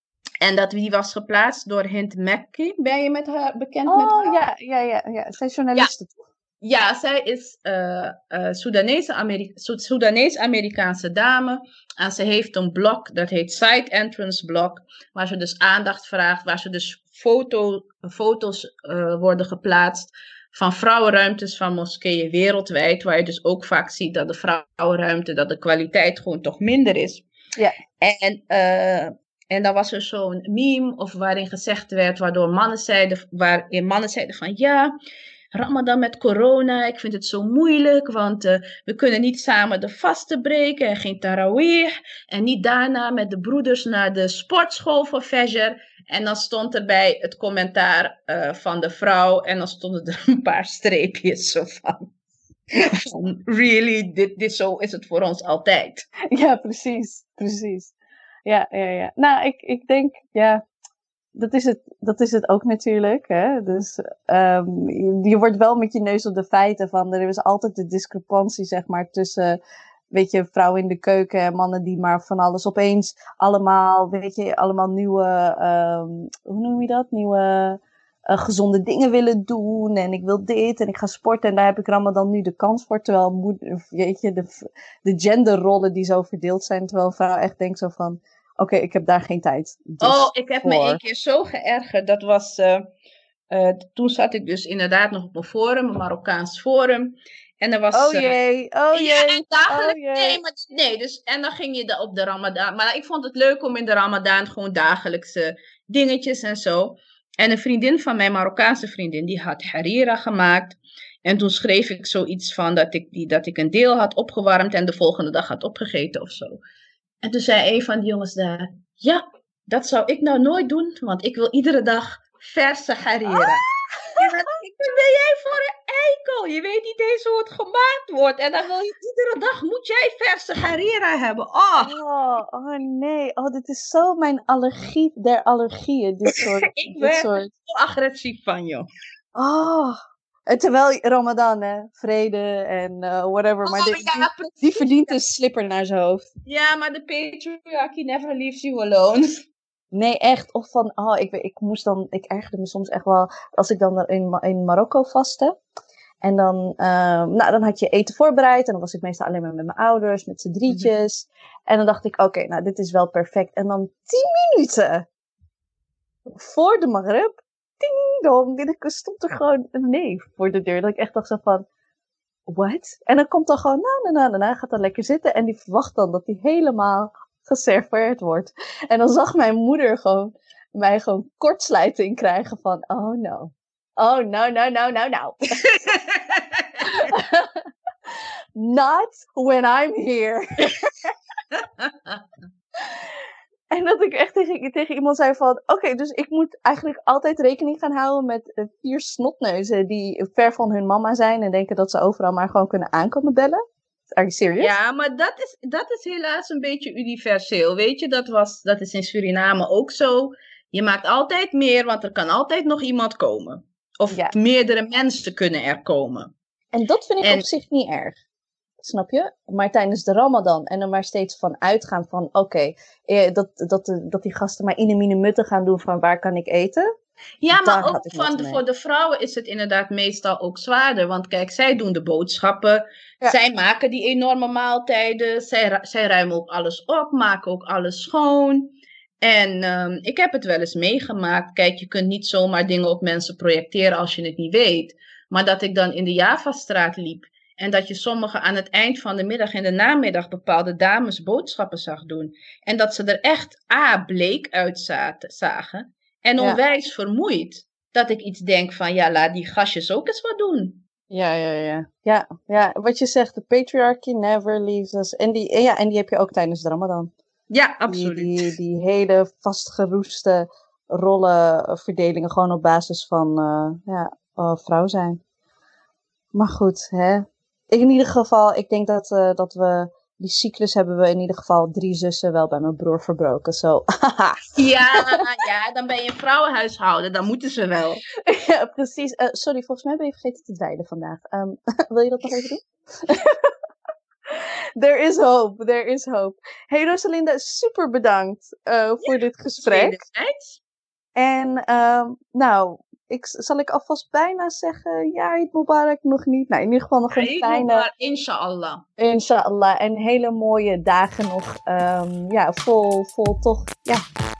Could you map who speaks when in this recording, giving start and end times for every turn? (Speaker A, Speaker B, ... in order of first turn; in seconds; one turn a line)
Speaker A: 0.4-4.3
Speaker B: 3.9-6.2
Speaker A: 6.6-27.2
Speaker A: 28.0-34.9
Speaker A: 35.5-52.1
Speaker A: 52.7-56.1
Speaker B: 56.3-57.9
Speaker B: 58.5-60.6
Speaker B: 61.3-69.6
Speaker B: 70.1-91.0
Speaker A: 90.0-92.8
Speaker A: 93.5-98.3
Speaker B: 97.9-100.4
Speaker A: 98.9-116.6
Speaker A: 117.2-123.6
Speaker B: 124.0-124.5
Speaker A: 124.2-131.9
Speaker B: 131.8-137.5
Speaker A: 136.3-138.9
Speaker B: 139.3-146.3
Speaker A: 143.7-145.1
Speaker A: 146.4-149.3
Speaker B: 149.9-155.6
Speaker B: 156.2-165.1
Speaker B: 166.3-171.6
Speaker B: 172.5-185.7
Speaker A: 185.7-186.8
Speaker B: 186.8-187.6
Speaker B: 188.6-191.1
Speaker A: 191.8-192.2
Speaker B: 193.7-203.6
Speaker B: 204.2-204.7
Speaker A: 204.6-216.3
Speaker B: 216.7-218.2
Speaker B: 218.8-226.8
Speaker A: 227.4-260.8
Speaker B: 227.5-228.6
Speaker B: 261.1-267.1
Speaker A: 267.5-268.4
Speaker B: 267.9-275.2
Speaker B: 276.3-285.2
Speaker A: 284.6-288.0
Speaker B: 288.2-293.5
Speaker B: 294.3-300.0
Speaker A: 299.1-300.6
Speaker B: 301.1-307.9
Speaker A: 307.1-308.8
Speaker B: 309.0-314.0